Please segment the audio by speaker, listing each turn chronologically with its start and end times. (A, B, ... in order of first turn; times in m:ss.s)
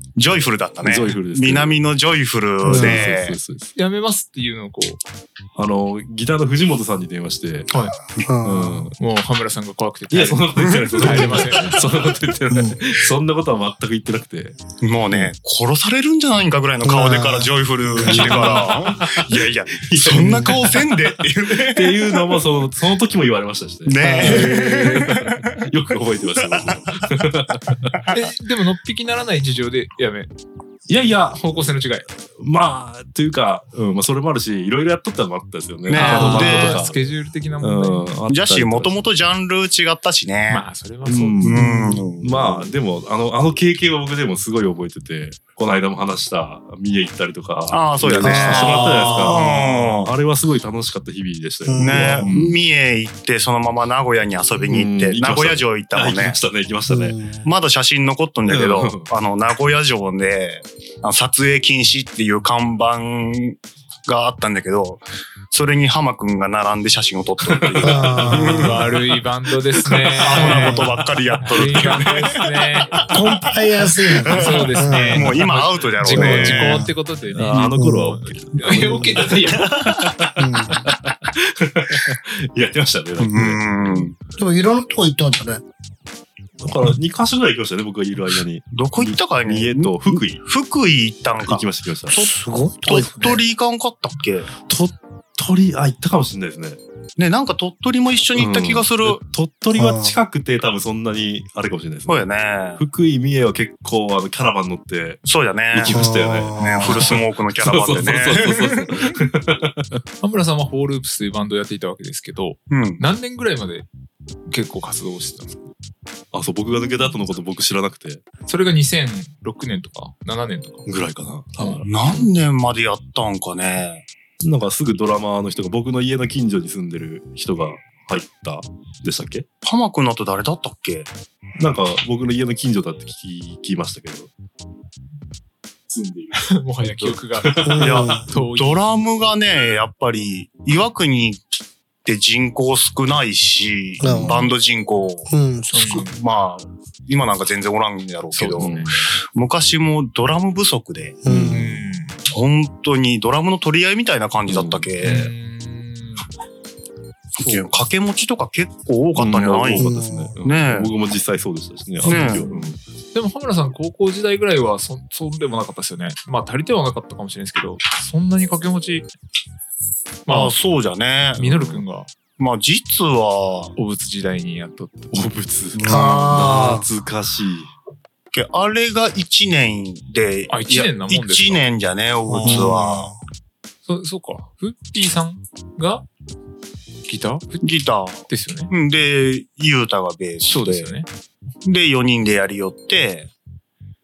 0:00.2-0:03.4 A
0:00.8-0:01.8 B
0:02.6-0:03.1 C
0:02.6-0:03.7 B
0:03.7-0:05.0 D
0:05.6-0:07.7 B
0:07.7-0:08.0 D
0:08.1-0:08.9 C
0:08.4-0:08.9 B
0:09.0-0:11.8 D
0:10.1-0:14.6 B
0:10.6-0:11.5 A
0:12.5-0:12.8 C
0:14.8-0:22.4 A
0:16.8-0:18.4 C
0:18.0-0:21.0 B
0:18.4-0:18.7 D
0:20.1-0:20.5 C
0:21.5-0:28.0 B
0:23.8-0:25.5 A
0:24.0-0:24.5 C
0:24.3-0:25.1 D
0:28.1-0:30.3 D
0:30.9-0:37.0 B
0:31.3-0:32.0 D
0:35.9-0:36.8 A
0:35.9-0:38.2 D
0:36.1-0:36.4 C
0:37.6-0:39.0 B
0:38.3-0:40.6 A
0:40.5-0:41.4 D
0:41.1-0:41.7 B
0:41.3-0:42.7 A
0:41.5-0:42.0 C
0:42.2-0:52.6 B
0:47.7-0:50.1 A
0:48.2-0:49.4 C
0:51.6-0:52.3 C
0:51.8-0:56.4 A
0:54.5-0:57.2 B
0:56.9-0:57.4 C
0:57.4-1:08.9 A
0:58.4-0:59.1 B
1:07.4-1:08.5 B
1:07.8-1:08.8 C
1:08.3-1:10.9 D
1:10.0-1:12.4 A
1:10.2-1:10.9 C
1:11.4-1:13.0 D
1:12.9-1:13.2 A
1:13.1-1:15.4 C
1:14.1-1:16.8 A
1:14.3-1:19.7 D
1:16.0-1:16.9 C
1:17.3-1:24.1 B
1:17.8-1:18.2 C
1:18.8-1:19.2 C
1:19.4-1:20.0 A
1:20.4-1:20.8 C
1:23.2-1:24.1 A
1:24.4-1:25.6 C
1:26.6-1:30.4 B
1:28.7-1:32.3 A
1:31.4-1:32.1 B
1:32.1-1:33.4 C
1:32.8-1:34.5 A
1:34.7-1:36.8 B
1:37.2-1:39.2 A
1:38.4-1:42.2 B
1:39.7-1:40.2 C
1:42.1-1:42.8 A
1:42.8-1:50.0 B
1:45.2-1:46.0 A
1:45.9-1:47.1 C
1:46.6-1:49.1 A
1:50.2-1:53.9 D
1:52.7-1:53.0 A
1:54.4-1:55.7 D
1:56.3-1:58.2 B
1:58.4-2:00.8 D
2:00.8-2:02.3 B
2:01.6-2:01.8 D
2:01.8-2:04.0 A
2:04.4-2:09.4 B
2:09.6-2:11.1 A
2:11.6-2:14.3 B
2:15.9-2:17.8 B
2:16.4-2:18.8 D
2:17.6-2:18.3 C
2:17.8-2:21.4 A
2:22.0-2:25.3 A
2:24.0-2:24.5 C
2:24.0-2:24.5 B
2:25.3-2:26.0 C
2:25.7-2:26.2 D
2:25.8-2:28.7 A
2:28.3-2:28.9 D
2:28.6-2:29.0 B
2:29.3-2:31.2 A
2:31.2-2:31.7 C
2:31.2-2:31.7 B
2:31.5-2:32.2 D
2:32.2-2:35.3 A
2:34.5-2:35.2 B
2:35.0-2:36.2 D
2:37.4-2:37.6 D
2:37.4-2:39.9 A
2:39.1-2:42.8 B
2:39.7-2:40.3 C
2:40.4-2:40.9 A
2:42.0-2:42.5 A
2:42.0-2:49.1 D
2:50.3-2:50.5 D
2:50.3-2:51.4 A
2:51.4-2:52.1 D
2:51.4-2:51.8 B
2:52.4-2:53.7 A
2:53.8-2:55.2 D
2:55.1-2:57.7 B
2:55.7-2:56.6 A
2:55.8-2:56.8 C
2:58.3-3:03.1 A
3:00.5-3:01.6 D
3:02.3-3:03.2 C
3:03.8-3:06.0 D
3:07.1-3:07.6 D
3:07.6-3:10.9 A
3:08.3-3:08.7 D
3:10.5-3:11.1 D
3:11.6-3:13.3 A